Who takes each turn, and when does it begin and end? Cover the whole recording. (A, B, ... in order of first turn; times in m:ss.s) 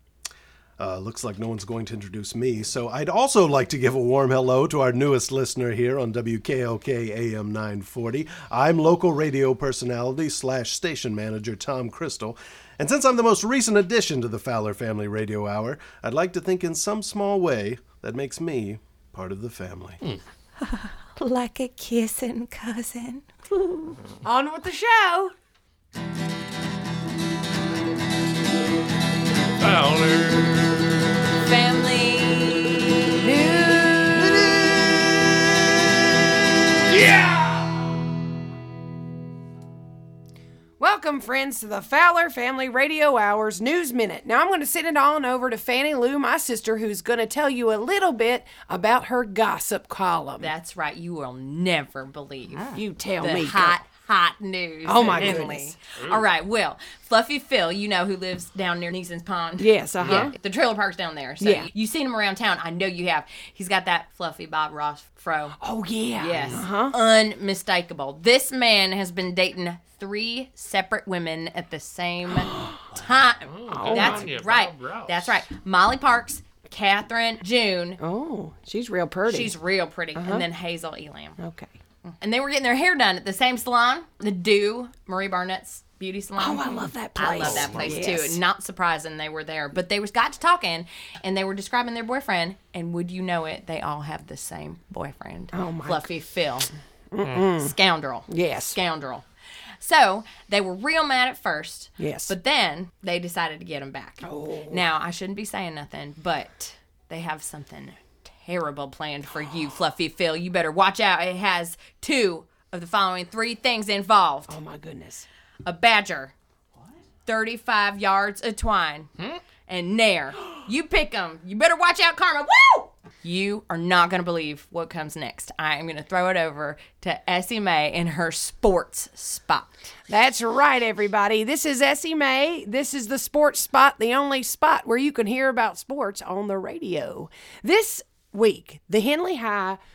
0:00.8-0:20.0 A
0:20.6-0:24.0 B
0:24.2-0:25.3 C
0:29.6-0:30.8 D
0:31.4-0:34.5 B
0:40.8-0:50.5 C
0:50.4-1:05.6 B
0:52.8-0:53.8 C
0:54.8-0:55.8 C
0:55.0-0:56.3 D
0:59.6-1:00.3 C
1:01.4-1:01.7 C
1:05.6-1:07.0 C
1:06.2-1:18.0 B
1:13.5-1:15.4 D
1:13.7-1:14.3 C
1:18.0-1:19.6 C
1:19.3-1:21.4 B
1:20.2-1:20.5 C
1:21.4-1:21.7 C
1:22.2-1:36.7 B
1:26.4-1:28.4 C
1:27.4-1:28.0 D
1:35.5-1:36.1 C
1:37.1-1:37.7 C
1:37.6-1:39.2 B
1:38.3-1:38.8 C
1:39.8-1:54.6 B
1:42.0-1:42.3 C
1:44.2-1:44.8 C
1:54.5-1:55.3 C
1:55.6-1:56.3 B
1:57.3-1:59.1 B
1:59.7-2:09.8 B
2:10.1-2:19.8 C